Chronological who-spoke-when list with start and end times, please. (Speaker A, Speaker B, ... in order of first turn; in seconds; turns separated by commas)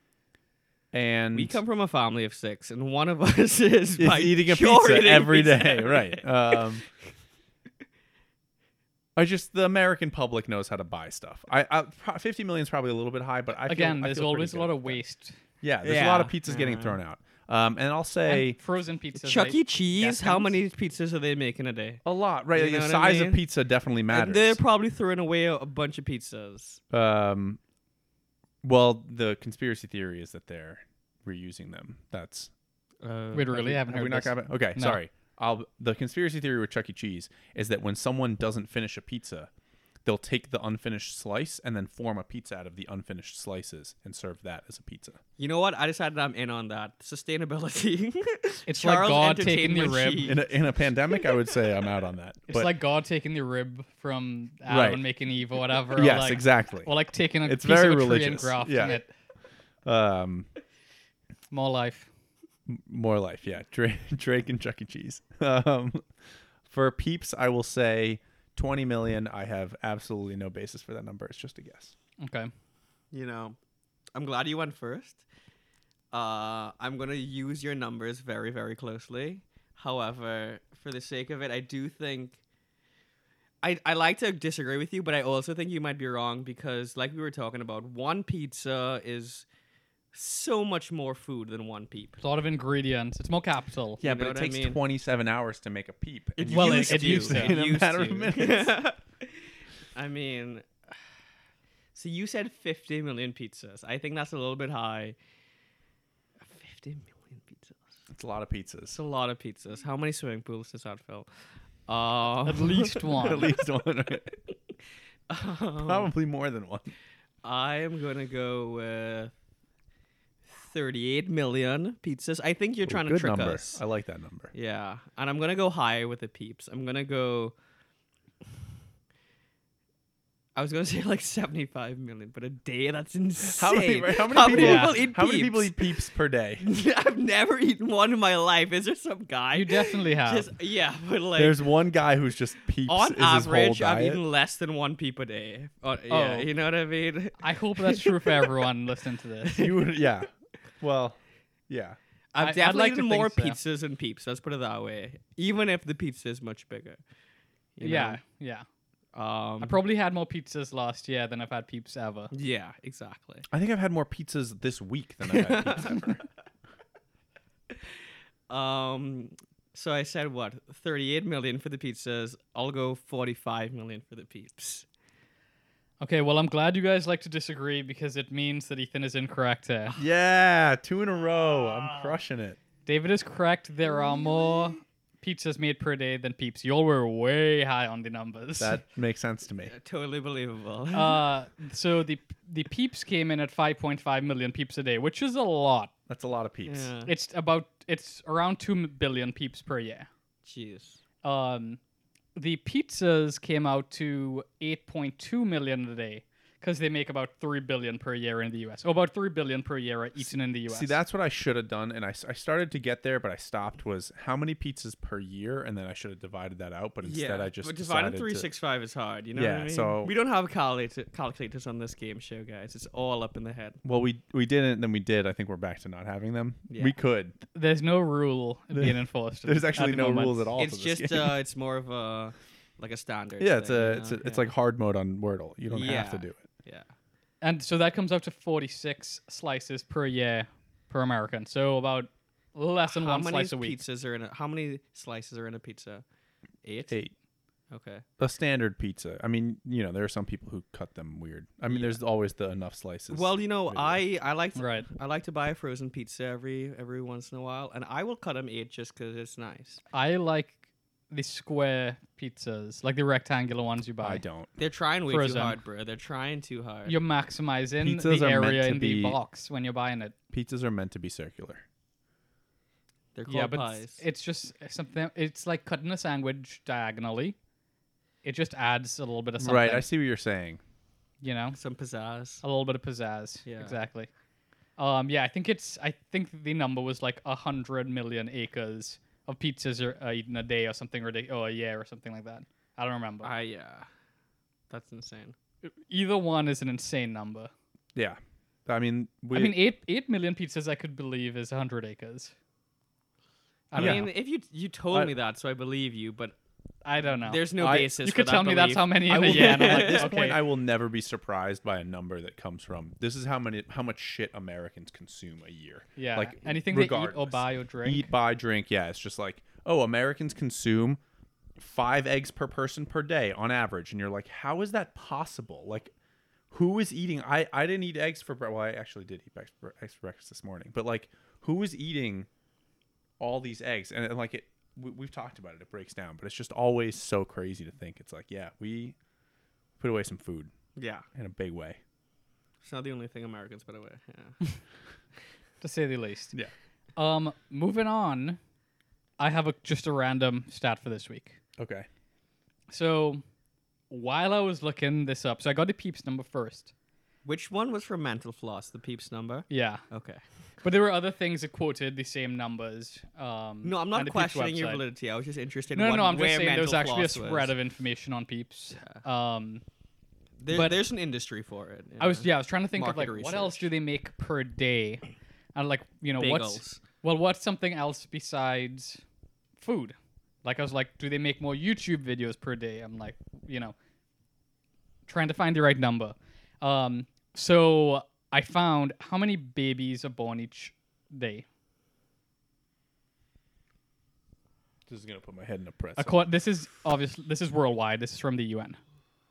Speaker A: 0.9-1.6, Speaker B: 1.3-6.8, Speaker A: 4.0-6.8, Speaker A: 9.2-15.0, Speaker C: 13.6-15.4, Speaker A: 15.6-18.6, Speaker B: 15.8-17.0, Speaker C: 18.2-20.6, Speaker B: 19.1-23.4, Speaker A: 22.1-24.6, Speaker B: 24.1-26.8, Speaker A: 26.9-27.6, Speaker A: 28.6-32.5, Speaker B: 33.0-33.8, Speaker C: 33.3-35.0, Speaker A: 33.6-39.5, Speaker A: 40.0-45.2, Speaker B: 45.4-50.6, Speaker C: 48.7-50.4, Speaker A: 50.2-52.7, Speaker B: 51.1-51.9, Speaker C: 52.5-59.1, Speaker A: 54.7-55.0, Speaker A: 56.0-56.9, Speaker A: 57.5-59.0, Speaker A: 59.9-60.5, Speaker C: 61.5-62.1, Speaker A: 62.7-66.1, Speaker A: 66.7-72.0, Speaker C: 72.2-72.5, Speaker B: 73.1-73.6, Speaker B: 74.2-75.2, Speaker B: 76.1-82.4, Speaker B: 83.6-89.5, Speaker B: 90.1-92.2, Speaker C: 92.2-94.0, Speaker A: 94.0-98.8, Speaker B: 94.0-94.8, Speaker B: 96.4-100.8, Speaker C: 96.5-97.5, Speaker B: 102.0-105.2, Speaker B: 106.5-107.8, Speaker A: 108.1-109.0, Speaker B: 108.9-111.3, Speaker B: 111.9-113.6, Speaker C: 112.4-113.5, Speaker A: 113.1-114.3, Speaker B: 115.3-116.1, Speaker A: 115.8-116.9, Speaker B: 117.4-119.3, Speaker B: 120.5-123.8, Speaker A: 122.9-124.5, Speaker B: 124.5-127.5, Speaker B: 130.6-136.0, Speaker A: 133.4-136.7, Speaker C: 134.5-135.0, Speaker B: 136.6-141.6, Speaker C: 139.5-140.5, Speaker A: 141.3-144.2, Speaker B: 142.9-148.7, Speaker C: 146.1-146.5, Speaker C: 147.4-149.6, Speaker B: 149.4-149.8, Speaker A: 149.5-150.3, Speaker A: 150.8-151.2, Speaker A: 151.7-152.0, Speaker B: 152.3-157.0, Speaker C: 152.4-153.6, Speaker B: 157.8-158.2, Speaker C: 157.8-158.7, Speaker B: 159.2-159.8, Speaker C: 159.6-162.3, Speaker B: 162.3-163.4, Speaker A: 163.5-166.2, Speaker B: 165.2-166.1, Speaker B: 168.5-174.9, Speaker C: 176.0-180.0, Speaker A: 179.9-182.6, Speaker C: 182.9-188.8, Speaker A: 188.6-189.7, Speaker B: 189.7-191.3, Speaker C: 190.9-195.9, Speaker A: 196.1-196.9, Speaker B: 196.7-197.1, Speaker C: 197.1-200.1, Speaker B: 200.4-201.0, Speaker C: 201.2-201.8, Speaker C: 202.3-211.0, Speaker A: 210.2-218.5, Speaker B: 217.0-223.8, Speaker A: 219.3-220.1, Speaker A: 223.8-227.4, Speaker B: 226.7-227.0, Speaker C: 227.5-230.5, Speaker A: 228.7-231.4, Speaker B: 230.6-234.5, Speaker A: 233.4-236.4, Speaker B: 235.7-236.9, Speaker C: 237.4-243.8, Speaker B: 242.8-246.0, Speaker B: 246.6-247.0, Speaker A: 246.9-247.1, Speaker B: 247.7-248.1, Speaker A: 248.2-254.0, Speaker B: 251.7-252.0, Speaker B: 253.1-259.8, Speaker C: 254.6-254.9, Speaker C: 259.9-264.2, Speaker A: 264.0-264.5, Speaker B: 264.6-267.0, Speaker C: 265.1-265.6, Speaker C: 266.9-270.1, Speaker A: 267.8-269.2, Speaker A: 270.3-271.6, Speaker B: 273.1-274.0, Speaker C: 273.3-277.4, Speaker C: 278.2-279.9, Speaker A: 279.4-280.6, Speaker C: 281.2-281.6, Speaker B: 281.5-282.4, Speaker C: 282.4-284.1, Speaker B: 283.5-283.8, Speaker C: 284.8-293.3, Speaker B: 293.2-293.9, Speaker B: 294.7-295.4, Speaker C: 295.6-297.5, Speaker A: 297.9-299.6, Speaker C: 299.3-302.3, Speaker C: 303.7-304.1, Speaker B: 303.7-306.4, Speaker A: 303.8-304.1, Speaker C: 306.9-307.5, Speaker B: 307.2-310.4, Speaker A: 307.6-307.9, Speaker C: 308.0-310.4, Speaker A: 309.1-321.0, Speaker C: 316.0-318.1, Speaker A: 321.6-325.9, Speaker A: 326.5-332.3, Speaker A: 333.2-339.0, Speaker A: 339.8-340.5, Speaker B: 340.8-341.1, Speaker A: 341.1-341.8, Speaker B: 342.6-344.5, Speaker C: 345.6-346.4, Speaker C: 347.0-348.4, Speaker C: 349.2-351.4, Speaker A: 351.6-351.9, Speaker C: 352.7-353.2, Speaker C: 353.9-356.7, Speaker B: 357.2-360.2, Speaker C: 359.5-359.8, Speaker C: 360.6-364.9, Speaker B: 363.6-367.6, Speaker C: 365.7-369.6, Speaker B: 368.8-369.0, Speaker B: 370.4-373.7, Speaker C: 370.5-370.8, Speaker C: 372.0-375.0, Speaker C: 375.6-379.0, Speaker B: 376.2-376.8, Speaker C: 379.6-383.8, Speaker C: 385.1-391.4, Speaker A: 394.9-396.2, Speaker C: 396.0-398.8